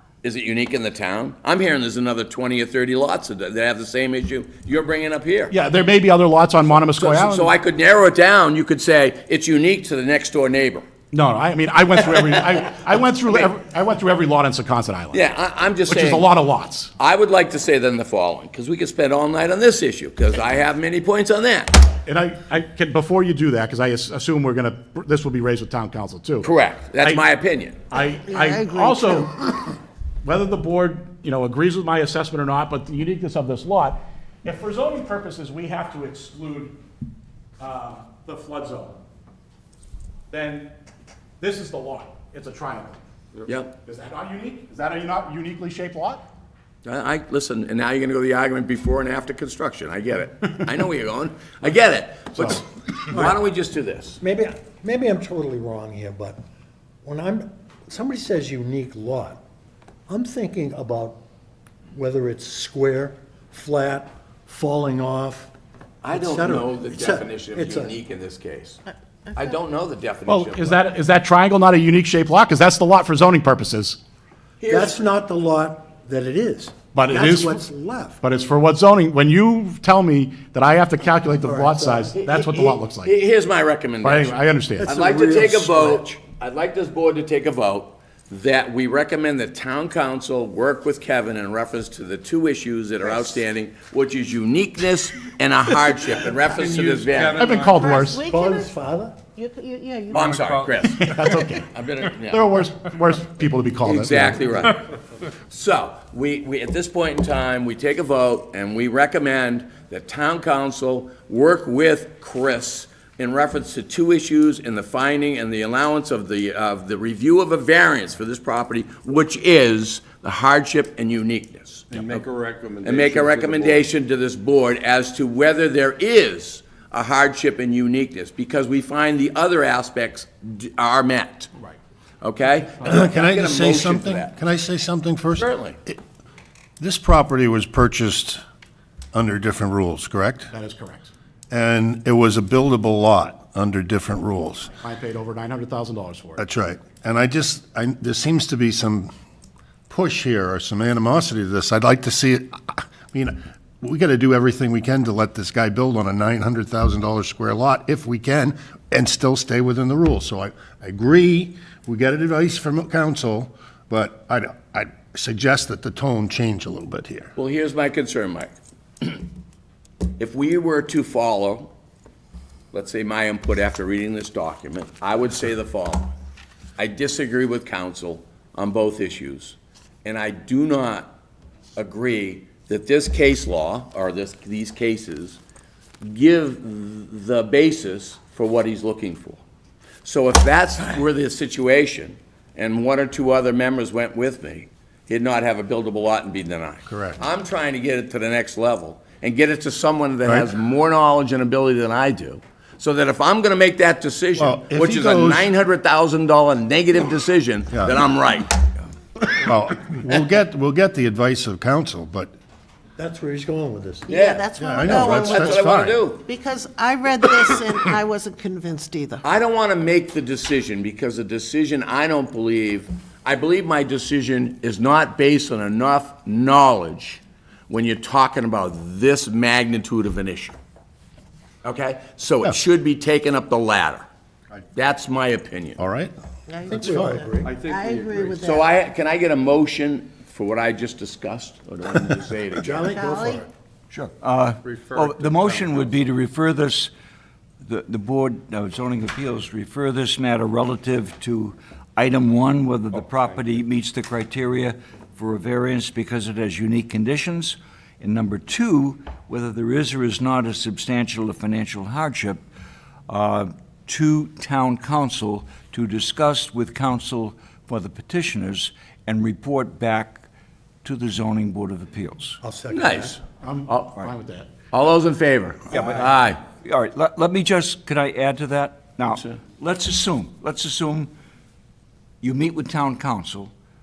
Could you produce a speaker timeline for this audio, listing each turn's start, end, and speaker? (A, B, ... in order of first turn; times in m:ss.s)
0:00.2-0:05.5 A
0:05.5-0:07.5 B
0:06.6-0:10.9 A
0:11.1-0:15.2 B
0:12.1-0:12.7 A
0:15.1-0:16.3 A
0:15.9-0:16.9 B
0:17.0-0:21.8 A
0:22.1-0:27.2 B
0:26.4-0:27.8 A
0:27.9-0:29.7 B
0:27.9-0:29.5 C
0:30.2-0:36.8 B
0:37.6-0:39.0 B
0:40.3-0:40.7 B
0:41.4-0:43.0 B
0:43.4-0:43.8 A
0:43.8-0:46.3 B
0:46.8-0:54.2 A
0:53.1-0:53.4 D
0:54.2-0:56.4 D
0:57.0-0:59.4 D
1:00.1-1:01.2 D
1:01.9-1:05.5 D
1:06.0-1:08.8 A
1:06.1-1:08.0 D
1:09.3-1:10.9 A
1:10.3-1:14.0 B
1:14.6-1:15.0 A
1:14.7-1:18.2 D
1:16.9-1:17.7 B
1:18.2-1:23.1 B
1:21.4-1:22.2 D
1:22.1-1:37.6 A
1:24.0-1:24.9 B
1:24.8-1:26.1 D
1:36.6-1:38.1 E
1:37.3-1:38.2 B
1:37.7-1:38.8 C
1:38.2-1:39.2 D
1:39.3-1:40.7 C
1:40.1-1:42.7 A
1:40.9-1:41.7 B
1:42.2-1:44.5 B
1:43.8-1:44.9 A
1:45.5-2:02.3 A
2:01.9-2:03.9 E
2:02.8-2:11.5 A
2:12.2-2:14.4 A
2:12.8-2:16.0 F
2:15.4-2:15.8 A
2:16.8-2:18.4 F
2:19.1-2:20.5 F
2:20.5-2:21.1 B
2:21.5-2:24.7 F
2:24.8-2:26.4 B
2:26.4-2:29.1 F
2:29.9-2:47.3 F
2:47.4-2:49.2 A
2:50.2-2:51.7 A
2:52.7-2:56.1 A
2:56.8-3:01.1 A
3:01.8-3:05.4 A
3:06.0-3:09.4 A
3:10.0-3:28.7 A
3:16.9-3:17.2 F
3:24.4-3:25.5 F
3:29.3-3:32.3 F
3:33.0-3:34.1 D
3:34.1-3:39.2 C
3:34.1-3:36.3 A
3:34.6-3:36.1 F
3:39.2-3:50.6 A
3:51.6-3:54.1 A
3:54.8-3:55.8 A
3:55.8-3:56.1 F
3:56.5-3:58.7 C
3:56.7-3:57.6 D
3:56.7-3:57.2 F
3:57.4-3:58.4 E
3:58.4-4:02.9 A
4:02.6-4:03.5 D
4:02.8-4:03.4 C
4:03.9-4:06.9 G
4:04.6-4:06.0 E
4:07.6-4:22.4 G
4:13.0-4:13.4 E
4:23.1-4:30.3 G
4:30.8-4:32.4 G
4:32.4-4:33.2 D
4:32.7-4:34.0 A
4:33.3-4:34.5 B
4:34.7-4:36.4 A
4:35.7-4:36.1 G
4:36.6-4:41.1 G
4:42.2-4:43.5 G